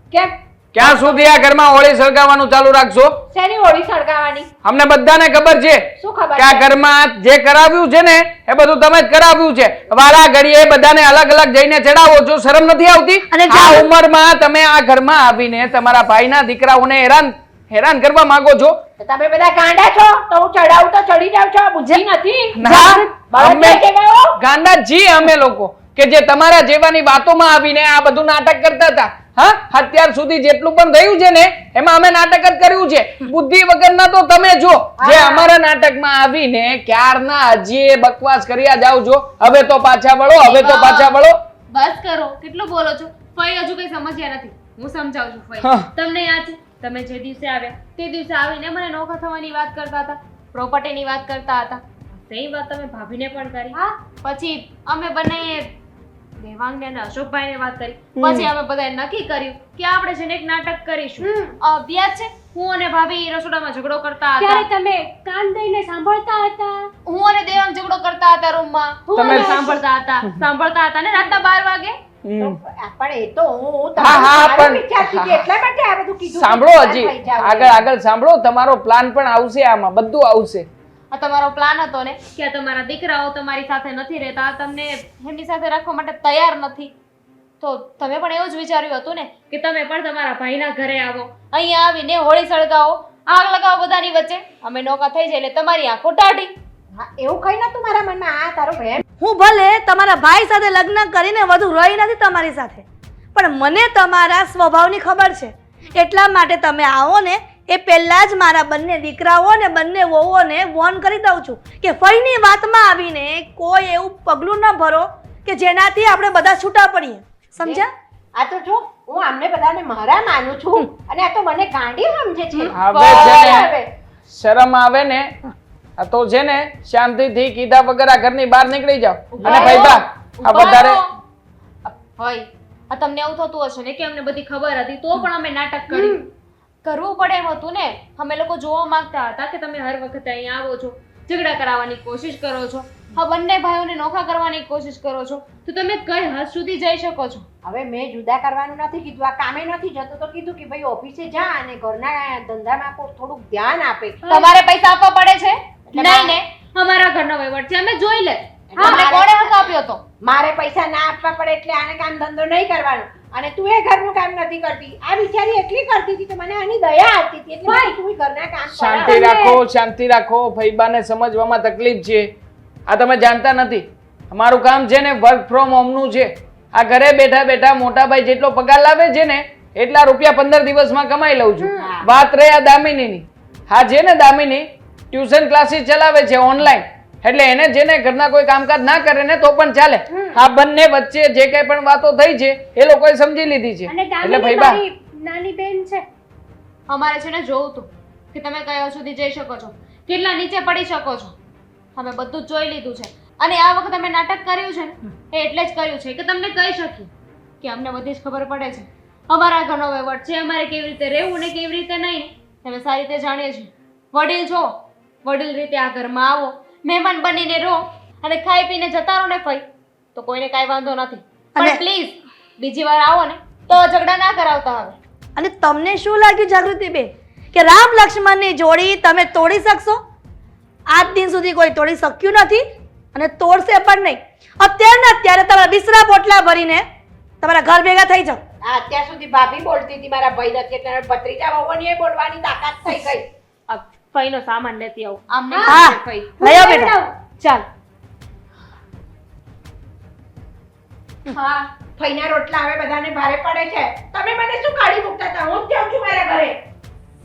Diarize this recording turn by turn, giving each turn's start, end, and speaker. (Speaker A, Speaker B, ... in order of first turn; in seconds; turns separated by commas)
Speaker A: 0.1-1.3, Speaker B: 0.7-3.2, Speaker A: 3.3-4.5, Speaker B: 4.6-18.8, Speaker A: 6.0-6.7, Speaker C: 13.3-13.9, Speaker A: 19.0-24.4, Speaker B: 22.6-23.8, Speaker B: 24.4-41.4, Speaker A: 35.0-35.5, Speaker D: 40.4-41.1, Speaker D: 41.7-55.7, Speaker B: 45.6-45.9, Speaker D: 56.4-64.7, Speaker C: 58.2-58.5, Speaker E: 64.4-66.9, Speaker D: 67.1-72.0, Speaker E: 69.1-69.8, Speaker B: 69.2-70.4, Speaker B: 72.2-72.6, Speaker A: 72.4-77.8, Speaker B: 74.0-75.5, Speaker B: 76.3-80.7, Speaker D: 81.1-86.9, Speaker D: 87.6-96.5, Speaker A: 97.0-99.0, Speaker C: 99.2-102.8, Speaker C: 103.3-117.9, Speaker A: 117.6-123.9, Speaker B: 122.7-123.8, Speaker B: 124.3-125.3, Speaker B: 126.0-131.0, Speaker D: 129.3-131.1, Speaker A: 129.4-130.0, Speaker D: 131.9-136.2, Speaker D: 136.8-147.5, Speaker A: 147.6-154.2, Speaker D: 154.3-160.0, Speaker A: 155.9-156.4, Speaker A: 158.7-159.5, Speaker E: 158.8-159.2, Speaker A: 160.2-169.2, Speaker E: 167.7-168.0, Speaker B: 168.7-172.3, Speaker E: 169.1-169.6, Speaker B: 172.9-194.8, Speaker A: 181.7-182.1, Speaker E: 193.9-196.1, Speaker D: 196.9-201.3, Speaker D: 202.0-207.1, Speaker D: 207.6-214.7, Speaker D: 215.2-225.0, Speaker C: 221.6-221.8, Speaker C: 225.4-230.0, Speaker C: 230.9-232.6, Speaker C: 233.1-236.8, Speaker C: 237.4-238.4, Speaker A: 238.6-243.3, Speaker D: 243.7-246.4, Speaker E: 245.5-245.8, Speaker C: 245.7-246.9, Speaker E: 246.4-247.1, Speaker D: 247.4-247.7, Speaker A: 251.3-256.6